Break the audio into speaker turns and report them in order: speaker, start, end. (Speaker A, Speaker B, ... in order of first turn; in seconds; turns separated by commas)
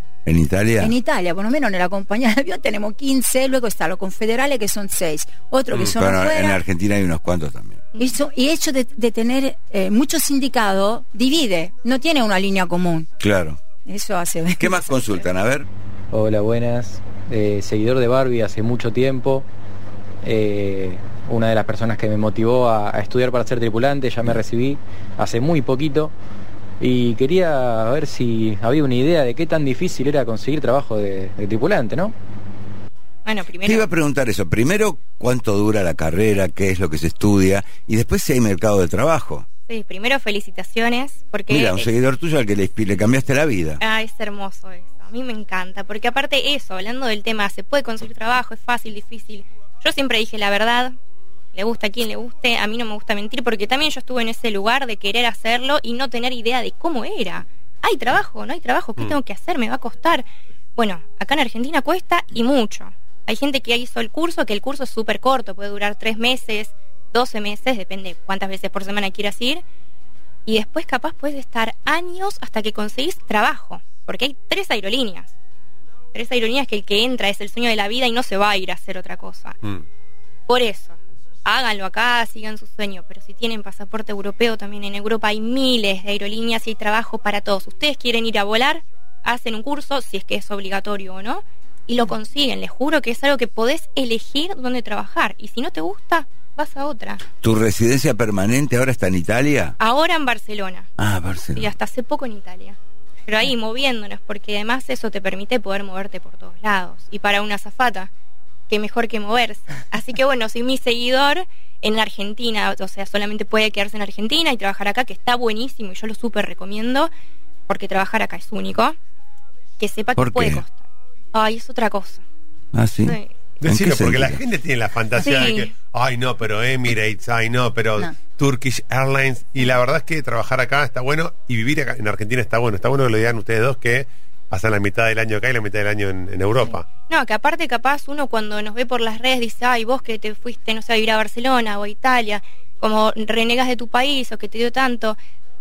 Speaker A: 0.2-0.9, Speaker B: 0.8-6.6, Speaker A: 5.8-7.9, Speaker B: 8.0-13.1, Speaker A: 13.2-13.6, Speaker B: 13.8-15.0, Speaker A: 14.6-15.7, Speaker C: 16.1-19.5, Speaker C: 20.2-26.1, Speaker C: 26.8-32.1, Speaker D: 33.2-33.9, Speaker A: 33.6-39.5, Speaker D: 39.7-41.9, Speaker A: 41.5-43.8, Speaker D: 43.8-51.0, Speaker D: 51.5-60.2, Speaker D: 60.8-69.6, Speaker D: 70.5-75.3, Speaker D: 76.1-79.5, Speaker D: 80.5-97.2, Speaker A: 97.4-99.8, Speaker D: 99.8-100.9, Speaker A: 101.0-101.7, Speaker D: 101.5-108.1, Speaker D: 108.7-117.1, Speaker D: 117.7-119.0, Speaker D: 119.8-122.2, Speaker A: 120.2-120.6, Speaker A: 122.7-124.4, Speaker D: 123.0-123.3, Speaker E: 123.6-136.8, Speaker D: 125.2-125.7, Speaker D: 137.1-145.2